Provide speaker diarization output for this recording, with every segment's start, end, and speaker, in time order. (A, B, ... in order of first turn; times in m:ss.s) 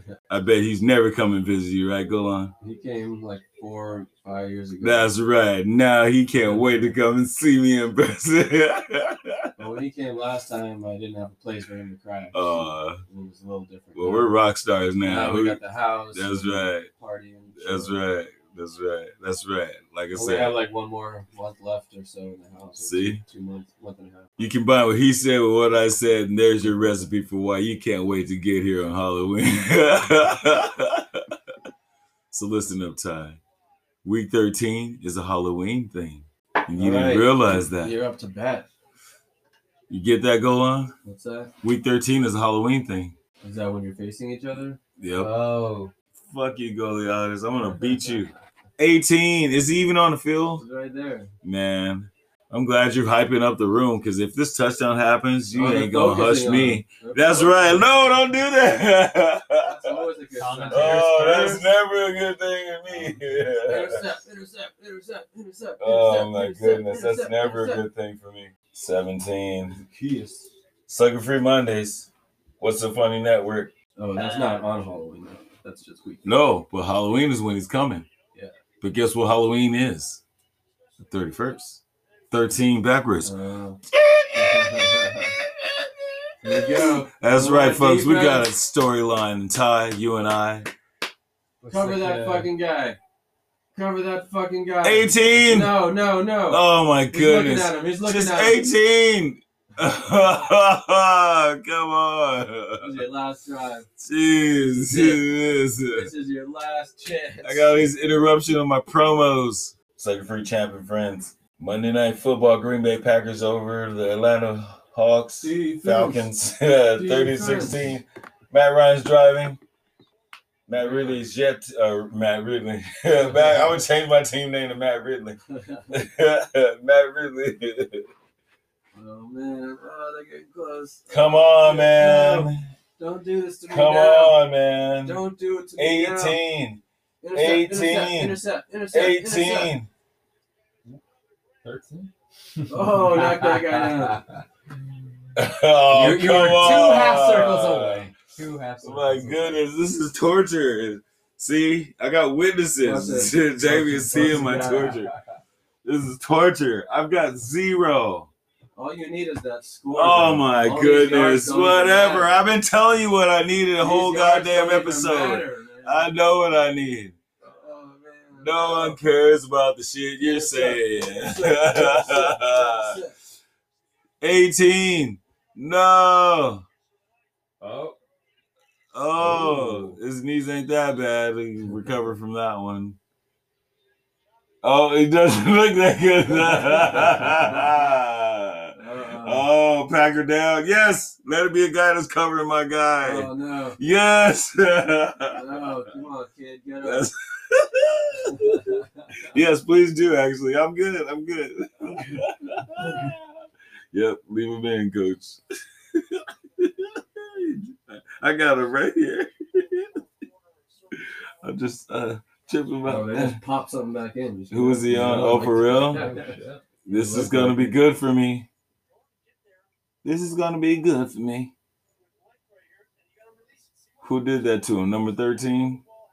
0:00.3-0:02.6 A
0:02.6-0:05.1 B
0:04.8-0:09.5 A
0:06.4-0:06.9 B
0:09.6-0:14.3 B
0:12.3-0:13.0 A
0:14.0-0:15.6 A
0:15.0-0:18.0 B
0:16.1-0:16.9 A
0:17.6-0:20.6 A
0:20.1-0:24.3 B
0:22.8-0:23.2 A
0:24.4-0:31.4 A
0:32.3-0:33.4 A
0:34.0-0:38.0 A
0:36.8-0:38.7 B
0:39.9-0:41.0 A
0:41.0-0:41.5 B
0:41.6-0:43.2 A
0:43.4-0:45.9 B
0:45.0-0:45.3 A
0:46.2-0:50.6 A
0:47.8-0:48.2 B
0:50.6-0:51.3 B
0:51.4-1:00.1 A
0:55.5-0:58.2 B
0:59.6-1:01.6 B
1:00.4-1:01.6 C
1:00.7-1:04.0 A
1:02.9-1:07.8 B
1:05.8-1:09.8 A
1:09.8-1:10.5 B
1:10.9-1:13.7 A
1:14.0-1:16.4 B
1:14.2-1:14.6 C
1:16.2-1:18.1 A
1:18.8-1:20.2 A
1:21.0-1:23.3 A
1:23.2-1:23.8 B
1:23.9-1:30.7 A
1:24.4-1:25.4 B
1:26.4-1:28.5 B
1:31.6-1:32.5 C
1:31.7-1:33.0 B
1:33.8-1:38.7 B
1:34.8-1:35.8 A
1:36.5-1:43.0 A
1:42.8-1:43.9 B
1:44.0-1:46.1 A
1:44.6-1:45.2 B
1:45.9-1:47.9 B
1:47.4-1:59.6 A
1:55.4-1:56.3 B
1:57.0-1:58.0 B
2:00.7-2:05.4 A
2:00.8-2:01.2 B
2:03.3-2:03.6 B
2:05.5-2:06.0 B
2:05.9-2:08.1 A
2:08.9-2:14.4 B
2:11.1-2:12.6 A
2:13.7-2:15.2 A
2:15.0-2:16.4 B
2:15.8-2:16.8 A
2:17.2-2:19.7 B
2:17.3-2:19.9 A
2:21.6-2:24.4 C
2:22.7-2:24.2 B
2:25.4-2:28.1 A
2:25.9-2:29.6 C
2:28.8-2:35.1 A
2:32.8-2:35.0 B
2:35.8-2:38.3 A
2:38.8-2:42.3 B
2:39.9-2:47.2 A
2:43.8-2:46.2 B
2:47.4-2:49.0 B
2:48.4-2:53.0 A
2:50.2-2:53.2 B
2:54.2-2:56.6 A
2:57.6-2:58.0 B
2:58.9-3:03.0 A
2:59.2-3:00.0 B
3:04.6-3:15.7 A
3:06.5-3:07.7 B
3:08.8-3:09.5 B
3:13.0-3:13.8 B
3:15.3-3:17.1 B
3:16.8-3:18.6 A
3:18.2-3:19.3 B
3:19.3-3:23.3 A
3:22.8-3:23.1 B
3:23.9-3:29.9 A
3:30.9-3:33.4 A
3:32.8-3:37.8 B
3:34.5-3:36.0 A
3:35.8-3:36.6 C
3:36.8-3:38.5 A
3:40.0-3:41.5 A
3:44.0-3:45.8 A